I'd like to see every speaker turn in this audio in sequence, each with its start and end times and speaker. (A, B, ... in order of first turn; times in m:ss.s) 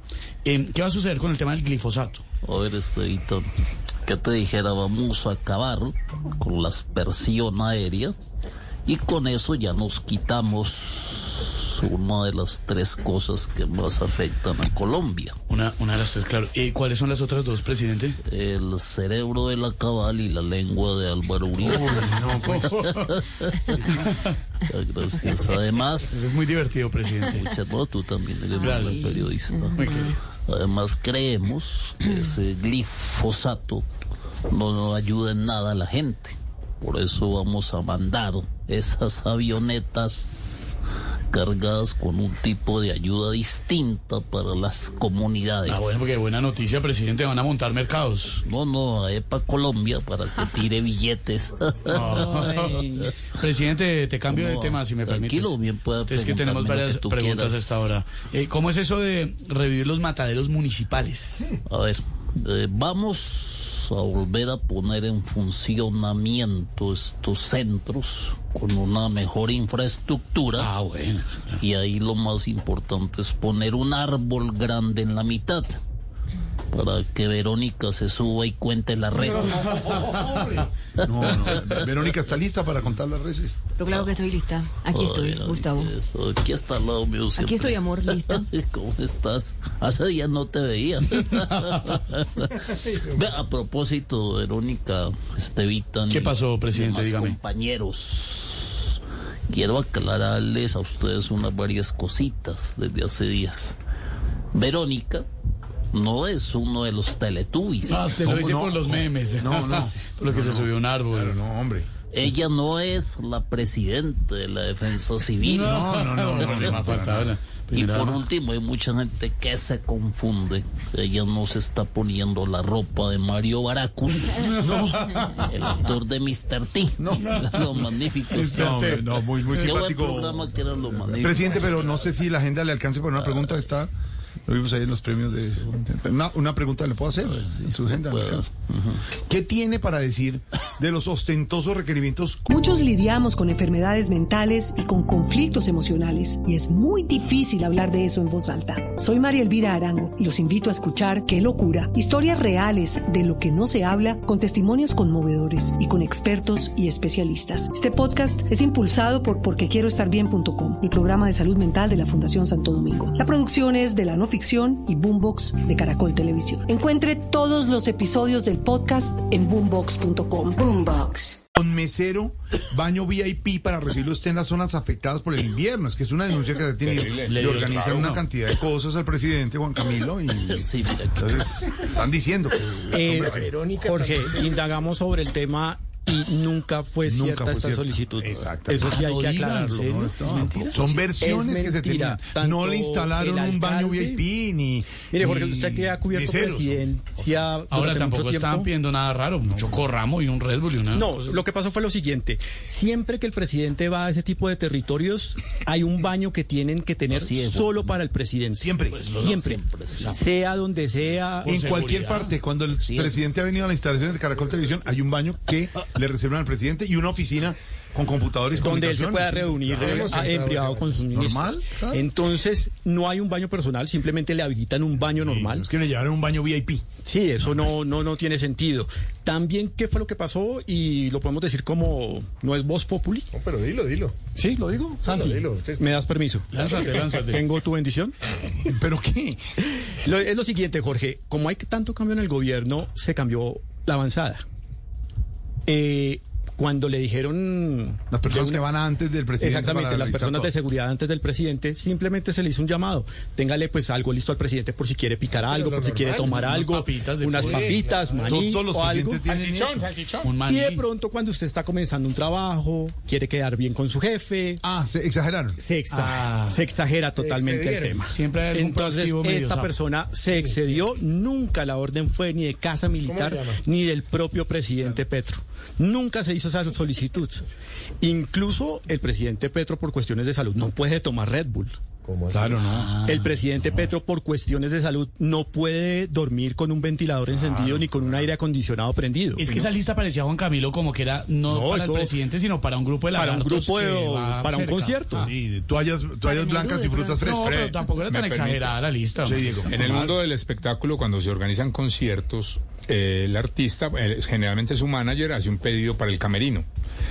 0:00.4-0:02.2 A
0:02.4-0:03.5 B
0:04.0-0:08.2 B
0:08.9-0:15.4 B
0:15.5-0:18.2 A
0:18.3-0:23.9 B
0:21.6-0:22.7 C
0:22.2-0:23.2 A
0:23.9-0:24.3 A
0:24.7-0:26.2 B
0:26.1-0:27.5 A
0:27.4-0:29.8 B
0:28.6-0:29.2 A
0:29.7-0:30.2 A
0:30.5-0:33.8 B
0:34.5-0:40.8 B
0:41.3-0:46.0 B
0:45.6-0:48.4 A
0:48.5-0:53.1 B
0:51.9-1:01.6 A
0:54.3-0:57.9 B
1:01.7-1:10.7 B
1:10.6-1:11.6 A
1:11.6-1:15.8 B
1:16.7-1:20.0 B
1:20.1-1:23.7 C
1:21.0-1:21.8 B
1:23.8-1:25.9 D
1:23.9-1:24.2 B
1:24.9-1:43.8 B
1:27.4-1:28.4 D
1:31.3-1:31.9 A
1:36.1-1:37.4 A
1:44.5-1:45.3 B
1:45.9-1:48.1 B
1:47.8-1:51.4 A
1:48.1-1:51.9 C
1:52.1-1:55.7 B
1:55.4-1:58.3 A
1:55.6-1:57.3 C
1:56.4-1:56.7 B
1:57.7-2:04.6 B
2:04.5-2:05.9 C
2:05.5-2:09.0 B
2:07.0-2:10.6 C
2:08.3-2:09.7 A
2:09.6-2:12.0 B
2:11.1-2:13.9 C
2:14.5-2:22.4 C
2:17.2-2:19.0 B
2:22.5-2:51.2 E
2:51.6-3:03.5 C
2:56.8-2:58.2 F
2:57.3-2:58.2 A
3:00.5-3:01.4 B
3:02.9-3:14.2 G
3:03.0-3:04.7 H
3:07.1-3:09.0 C
3:08.8-3:10.8 A
3:09.8-3:17.5 C
3:15.0-3:18.7 G
3:17.7-3:21.3 A
3:20.9-3:31.6 G
3:27.1-3:28.0 B
3:28.6-3:29.1 C
3:28.9-3:30.3 A
3:28.9-3:30.2 B
3:31.4-3:32.4 A
3:31.4-3:40.2 C
3:32.8-3:33.4 B
3:38.5-3:45.7 G
3:39.7-3:41.1 H
3:41.1-3:42.0 C
3:45.2-3:46.8 C
3:47.0-3:53.3 G
3:53.3-3:54.2 H
3:54.4-3:58.1 G
3:55.0-3:56.0 H
3:56.5-3:57.4 A
3:56.7-3:57.0 H
3:58.7-3:59.4 C
3:59.6-4:04.4 G
4:05.7-4:08.7 G
4:08.1-4:10.6 C
4:09.4-4:19.3 G
4:15.5-4:16.4 H
4:16.3-4:17.9 A
4:17.3-4:18.3 H
4:18.2-4:19.8 C
4:19.2-4:20.3 F
4:20.2-4:20.8 A
4:20.4-4:24.6 G
4:24.6-4:25.6 C
4:25.6-4:37.4 G
4:25.9-4:26.6 A
4:27.2-4:28.0 H
4:28.1-4:29.8 A
4:30.3-4:30.8 H
4:33.1-4:33.6 H
4:38.0-4:41.8 G
4:42.0-4:42.7 H
4:42.3-4:43.0 C
4:42.7-4:43.4 A
4:43.0-4:49.7 G
4:43.6-4:43.9 C
4:47.3-4:48.3 C
4:49.4-4:55.3 A
4:51.5-4:52.2 G
4:53.1-4:55.3 G
4:55.2-4:57.8 C
4:56.3-4:57.1 D
4:57.1-5:00.2 A
4:58.0-4:58.7 F
4:59.2-5:00.0 C
4:59.7-5:06.7 F